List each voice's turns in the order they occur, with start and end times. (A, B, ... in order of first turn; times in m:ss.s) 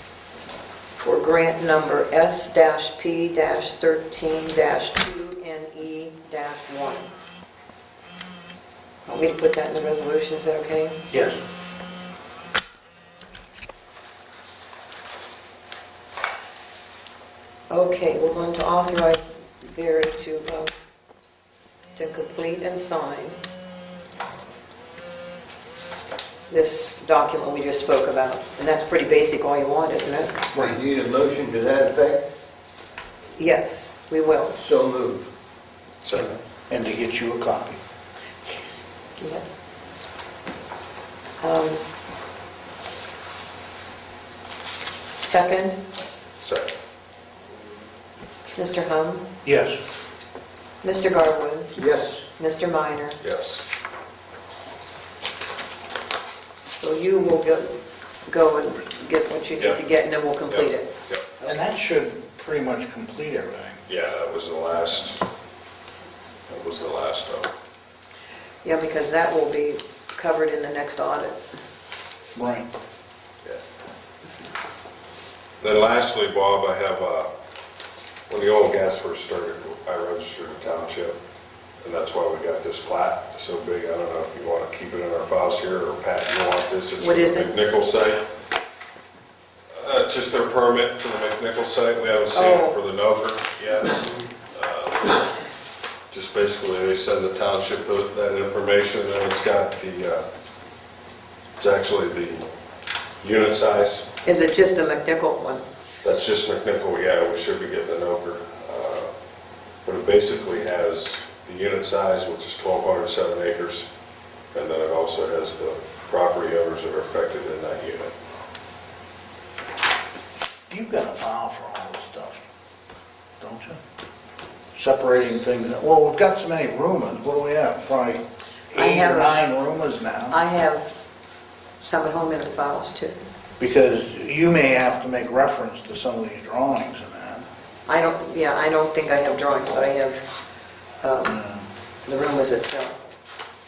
0:01.0-0:07.1 A
0:09.1-0:11.0 A
0:11.1-0:11.4 B
0:17.7-0:20.7 A
0:22.0-0:23.4 A
0:26.5-0:30.3 A
0:30.5-0:30.8 B
0:30.6-0:32.3 C
0:33.4-0:34.6 A
0:34.6-0:35.3 C
0:36.0-0:36.4 D
0:36.1-0:37.8 B
0:39.2-0:39.4 A
0:41.4-0:41.8 A
0:45.2-0:45.8 A
0:46.4-0:46.7 D
0:48.5-0:49.2 A
0:49.4-0:49.8 B
0:50.8-0:51.8 A
0:51.8-0:52.2 C
0:52.4-0:53.2 A
0:53.2-0:53.6 D
0:56.7-1:00.9 A
1:00.5-1:01.3 D
1:01.4-1:03.8 B
1:03.9-1:05.2 D
1:06.5-1:07.5 D
1:08.6-1:11.4 A
1:12.4-1:12.7 B
1:15.6-1:17.3 D
1:18.3-1:21.2 D
1:21.8-1:28.2 D
1:27.0-1:27.6 A
1:29.7-1:35.3 D
1:32.3-1:32.8 A
1:36.1-1:40.3 D
1:41.6-1:42.5 D
1:43.2-1:44.1 D
1:44.2-1:45.6 A
1:46.0-1:49.1 D
1:49.8-1:53.9 D
1:54.5-1:58.1 D
2:00.7-2:02.4 B
2:03.4-2:03.8 B
2:04.8-2:10.4 B
2:08.7-2:09.4 A
2:10.3-2:10.9 A
2:11.8-2:13.2 A
2:13.6-2:17.5 B
2:17.9-2:20.2 A
2:21.0-2:21.5 A
2:22.0-2:23.0 A